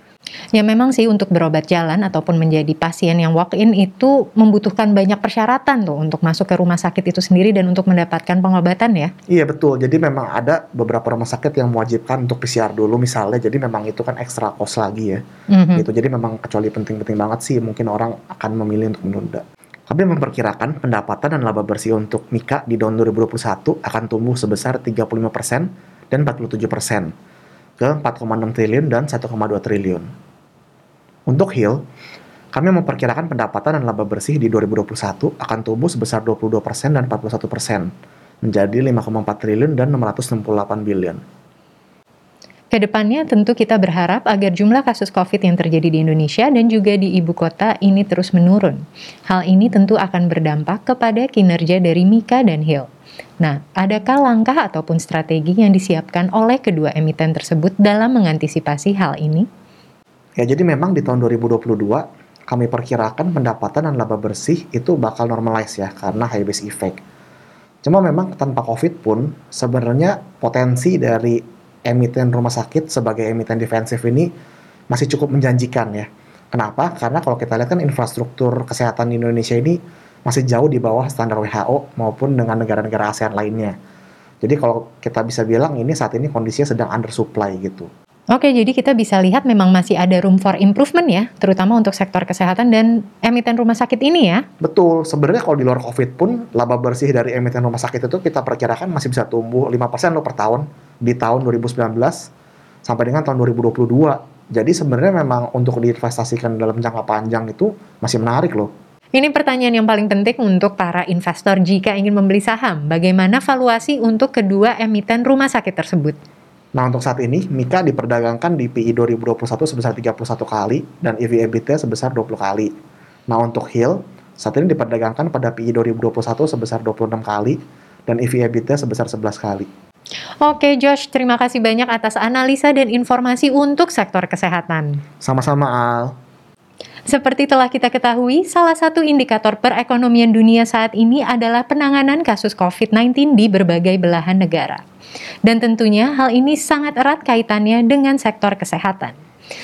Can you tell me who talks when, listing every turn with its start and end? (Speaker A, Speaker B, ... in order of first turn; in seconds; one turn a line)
Speaker A: 0.6-9.1
Speaker B: 9.3-15.2
Speaker A: 15.5-15.8
Speaker B: 15.8-27.1
Speaker B: 27.8-30.1
Speaker B: 31.3-31.8
Speaker B: 32.5-37.9
Speaker B: 38.4-41.2
Speaker A: 42.7-52.9
Speaker A: 53.4-59.5
Speaker B: 60.4-67.0
Speaker B: 67.8-74.3
Speaker B: 74.9-83.7
Speaker B: 84.4-87.9
Speaker A: 88.3-94.5
Speaker B: 94.6-102.3
Speaker B: 102.9-108.7
Speaker A: 109.2-116.2
Speaker B: 116.8-122.7
Speaker B: 123.3-129.7
Speaker A: 130.4-135.0
Speaker B: 135.2-136.1
Speaker A: 137.1-144.8
Speaker A: 145.5-149.2